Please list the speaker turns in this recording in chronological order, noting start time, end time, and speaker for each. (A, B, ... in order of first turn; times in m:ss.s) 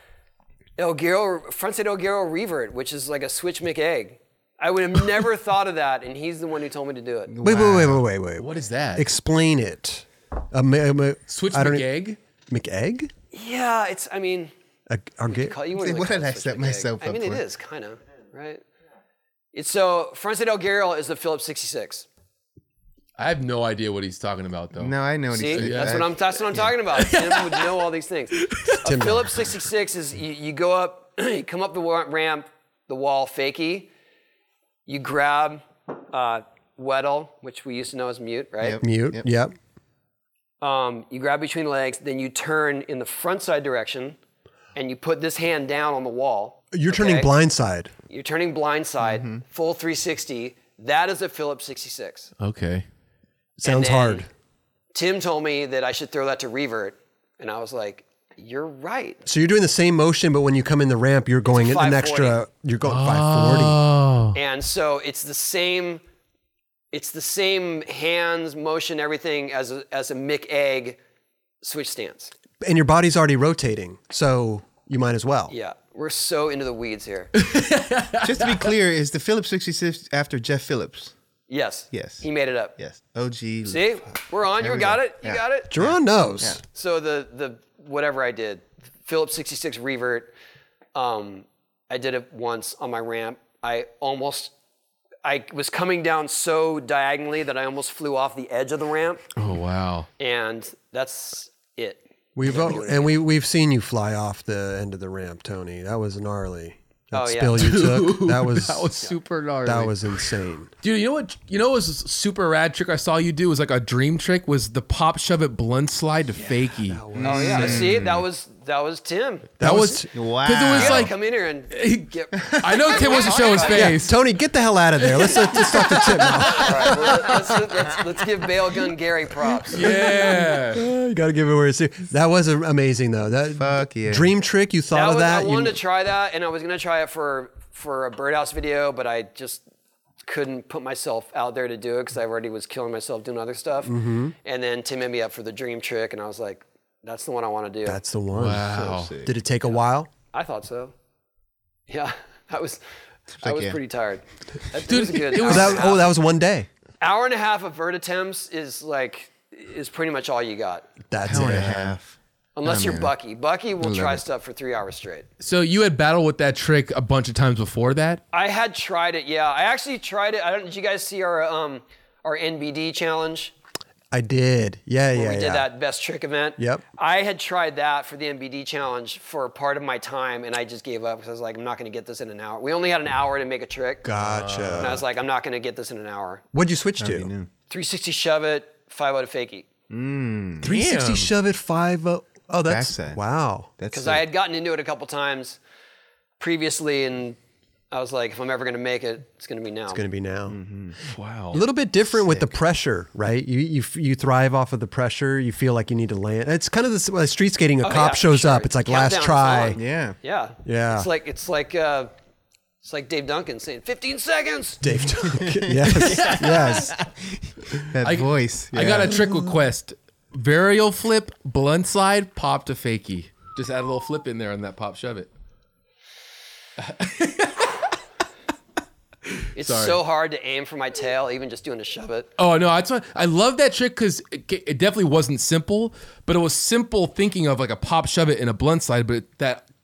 0:00.8-0:07.3 A
0:07.3-0:08.0 B
0:07.4-0:11.9 C
0:08.4-0:09.1 D
0:11.3-0:12.2 D
0:12.5-0:13.1 C
0:13.3-0:14.5 A
0:14.9-0:15.6 C
0:15.3-0:18.6 A
0:15.7-0:17.4 B
0:19.5-0:22.1 A
0:23.2-0:25.0 D
0:24.8-0:26.7 B
0:25.3-0:33.9 A
0:25.5-0:26.0 D
0:26.9-0:27.8 D
0:28.4-0:28.8 D
0:28.8-0:29.5 C
0:34.9-0:38.8 A
0:38.6-0:39.3 B
0:38.8-0:39.5 C
0:40.6-0:44.2 A
0:44.8-0:47.3 A
0:46.7-0:47.9 C
0:48.1-0:52.3 A
0:49.0-0:49.4 B
0:52.4-0:52.8 D
0:53.6-0:54.3 C
0:53.6-0:54.3 A
0:54.9-0:59.2 A
0:59.2-1:03.9 C
1:01.5-1:02.4 A
1:02.8-1:04.4 D
1:04.4-1:06.0 A
1:06.9-1:11.0 A
1:11.6-1:12.3 A
1:12.6-1:15.5 C
1:15.5-1:17.3 A
1:17.4-1:18.7 D
1:18.2-1:21.1 B
1:21.5-1:22.8 A
1:21.9-1:22.2 B
1:22.8-1:26.6 B
1:23.7-1:25.7 A
1:25.7-1:26.6 C
1:26.7-1:30.3 A
1:31.0-1:34.5 A
1:35.2-1:39.2 A
1:39.4-1:40.1 D
1:40.2-1:43.2 A
1:42.4-1:48.9 C
1:47.1-1:47.8 A
1:47.6-1:57.0 D
1:49.6-1:50.7 C
1:56.5-1:58.0 C
1:57.2-1:58.3 B
1:57.2-1:59.5 A
1:59.6-2:00.1 C
1:59.6-2:01.2 D
2:00.1-2:01.1 B
2:00.7-2:04.1 A
2:01.7-2:04.2 D
2:02.4-2:03.2 B
2:03.7-2:07.6 C
2:05.0-2:06.7 D
2:06.5-2:09.9 A
2:09.7-2:10.8 D
2:09.7-2:15.8 C
2:13.6-2:14.3 B
2:14.9-2:19.6 A
2:20.2-2:28.0 A
2:23.8-2:24.4 C
2:27.9-2:30.1 C
2:28.3-2:29.2 D
2:28.6-2:29.3 B
2:30.3-2:30.9 A
2:31.9-2:32.8 A
2:33.3-2:33.8 B
2:33.4-2:36.1 A
2:34.9-2:35.8 D
2:35.4-2:36.7 C
2:37.0-2:40.9 A
2:41.1-2:42.0 C
2:41.2-2:43.1 B
2:42.6-2:45.3 A
2:43.8-2:44.2 B
2:45.4-2:48.2 D
2:48.3-2:53.6 A
2:54.1-2:55.6 C
2:55.1-3:04.0 A
2:56.6-2:56.8 C
3:04.0-3:05.0 C
3:04.2-3:05.0 D
3:04.8-3:06.4 A
3:06.5-3:07.3 C
3:07.0-3:07.5 B
3:07.7-3:09.7 A
3:09.9-3:10.7 B
3:10.6-3:13.7 C
3:10.7-3:11.3 D
3:12.6-3:13.2 B
3:13.8-3:14.3 B
3:13.9-3:15.6 A
3:16.4-3:17.4 A
3:17.9-3:20.0 A
3:19.9-3:20.6 C
3:20.5-3:21.0 B
3:21.1-3:21.6 D
3:21.5-3:29.8 C
3:22.2-3:22.5 B
3:27.8-3:32.1 A
3:29.7-3:30.2 B
3:30.6-3:31.1 C
3:32.8-3:35.1 A
3:34.8-3:37.0 C
3:35.3-3:39.2 B
3:35.9-3:36.9 D
3:38.0-3:45.3 D
3:46.8-3:47.9 D
3:49.6-3:50.0 D
3:49.6-3:52.3 A
3:52.4-3:59.6 D